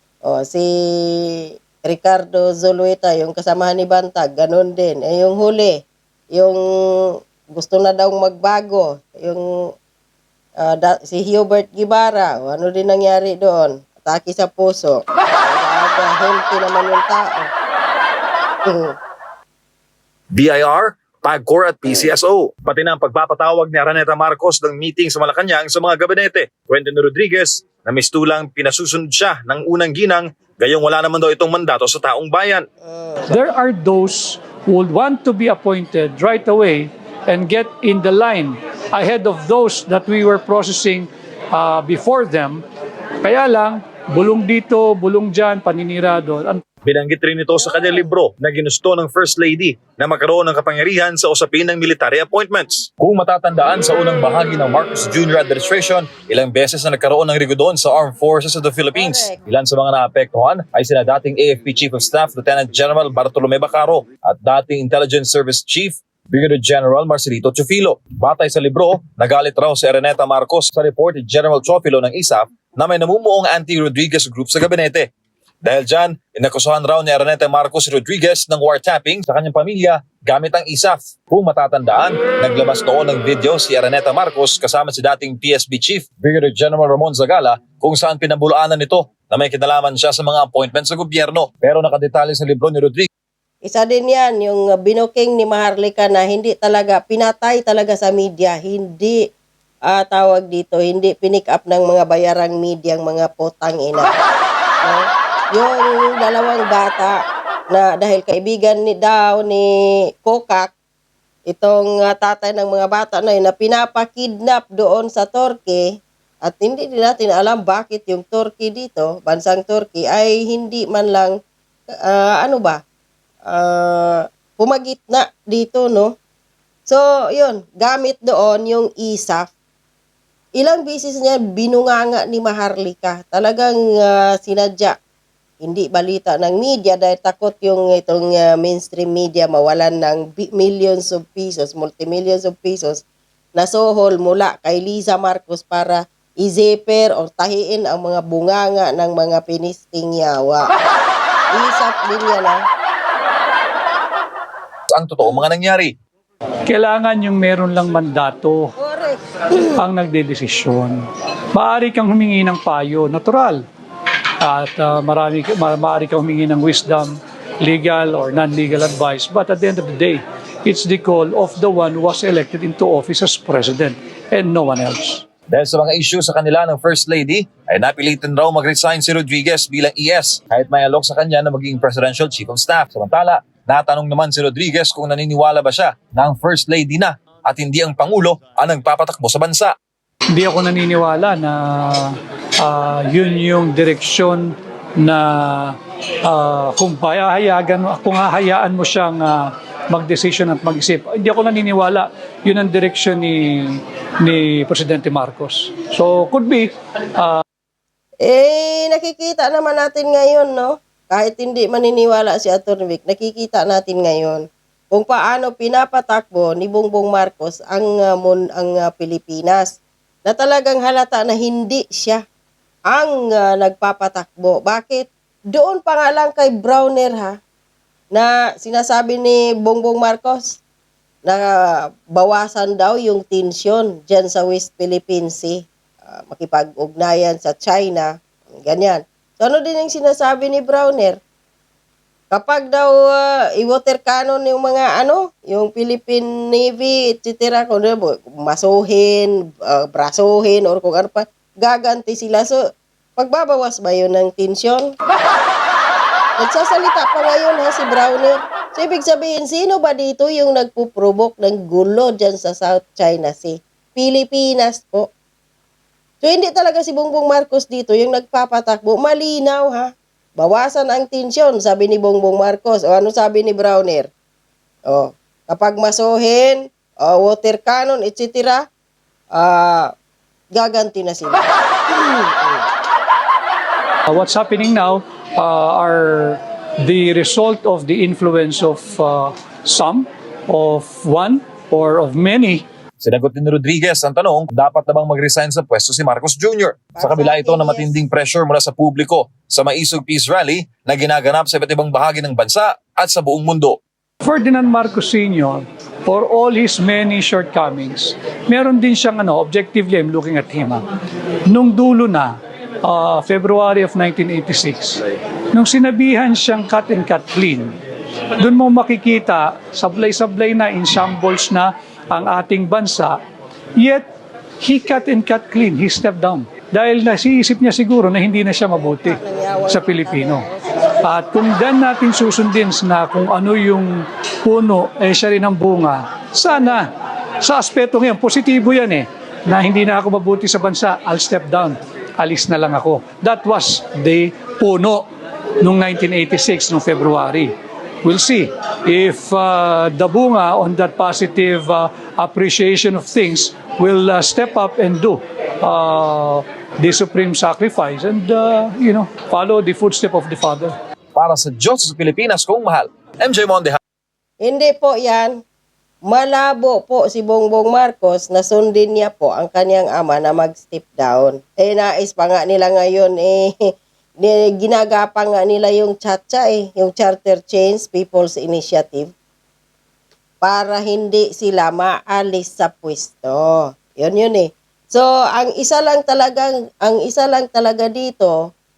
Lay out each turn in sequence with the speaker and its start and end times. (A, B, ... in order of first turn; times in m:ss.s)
0:00.3-0:05.7 A
0:06.3-0:09.4 A
0:10.6-0:17.5 A
0:18.6-0:18.9 A
0:20.3-0:32.6 B
0:32.8-0:33.3 A
0:33.3-0:42.6 C
0:43.2-0:46.6 C
0:46.8-1:15.0 B
0:47.6-0:48.2 A
0:58.9-0:59.4 A
1:15.6-1:33.1 B
1:33.6-1:39.2 A
1:39.9-1:44.1 A
1:44.8-1:47.1 A
1:47.7-1:49.7 A
1:50.2-1:50.7 A
1:51.5-1:55.9 A
1:56.4-2:01.3 A
2:02.0-2:02.8 A
2:03.5-2:06.1 A
2:06.9-2:09.5 A
2:10.6-2:14.9 A
2:15.6-2:23.0 A
2:23.6-2:30.6 A
2:31.5-2:32.6 A
2:34.9-2:35.9 B
2:36.7-2:38.7 C
2:38.8-2:39.7 A
2:39.7-2:41.0 C
2:41.5-2:43.6 C
2:44.4-2:55.2 C
2:55.5-3:09.7 B
3:10.3-3:14.5 C
3:15.0-3:27.4 C
3:28.2-3:39.7 A
3:40.2-3:42.2 A
3:42.9-3:47.3 A
3:48.1-3:50.6 A
3:51.2-3:58.1 A
3:58.6-4:01.2 A
4:02.3-4:12.6 A
4:13.2-4:14.9 A
4:16.4-4:25.1 A
4:26.2-4:34.1 A
4:34.9-4:38.6 A
4:39.4-4:39.9 A
4:40.5-4:42.6 A
4:44.1-4:52.6 C
4:53.0-5:03.8 B
4:56.9-4:58.0 A
5:04.2-5:10.8 C
5:11.5-5:15.0 C
5:15.5-5:17.7 C
5:18.4-5:23.2 C
5:23.8-5:24.0 C
5:24.6-5:30.4 C
5:28.8-5:31.2 A
5:31.0-5:36.8 C
5:37.4-5:45.1 C
5:45.6-5:47.5 C
5:48.0-6:00.7 C
6:01.1-6:03.8 B
6:04.4-6:05.4 A
6:06.1-6:13.5 A
6:14.2-6:19.1 A
6:20.4-6:28.3 A